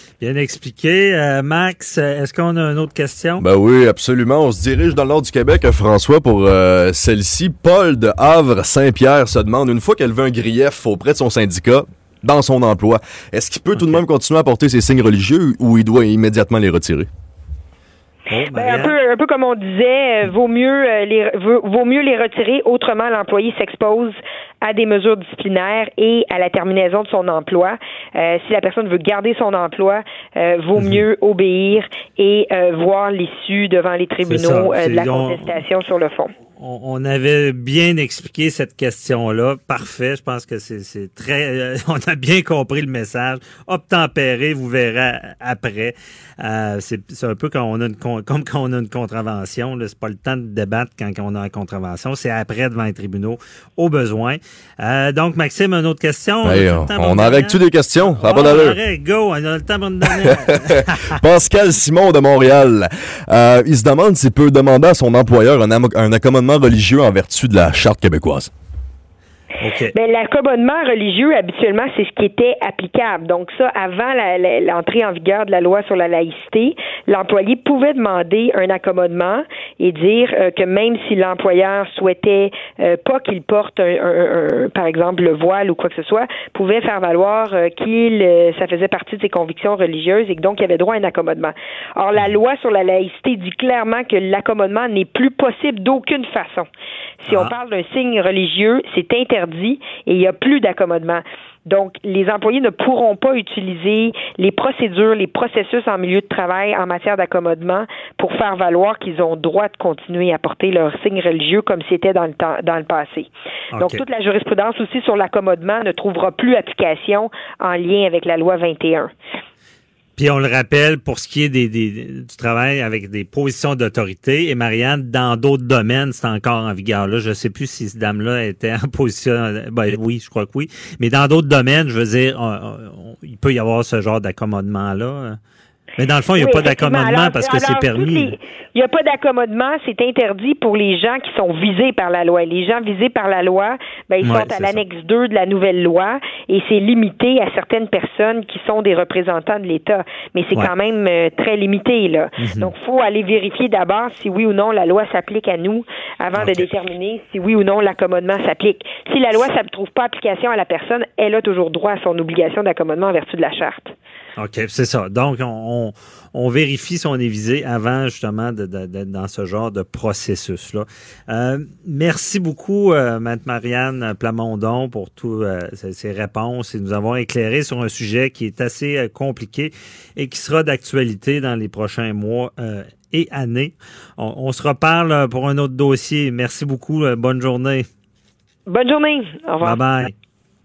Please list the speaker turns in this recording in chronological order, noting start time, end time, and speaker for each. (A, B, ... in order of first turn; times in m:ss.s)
0:00.2-0:03.4 A
0:03.4-0:17.1 B
0:13.8-0:14.0 A
0:18.3-0:18.9 A
0:18.5-0:36.3 C
0:30.8-0:31.0 A
0:34.2-0:35.6 A
0:36.6-1:01.1 A
0:56.4-0:58.8 B
1:01.1-1:08.5 B
1:09.6-1:09.9 A
1:09.9-1:36.7 C
1:37.2-1:59.1 C
1:37.3-1:37.5 A
1:53.7-1:54.0 A
2:00.2-2:15.4 A
2:16.0-2:18.3 A
2:16.4-2:43.9 C
2:24.2-2:24.8 A
2:32.4-2:32.7 A
2:36.4-2:36.7 A
2:44.4-3:07.8 A
3:08.7-3:09.8 C
3:09.6-3:10.1 A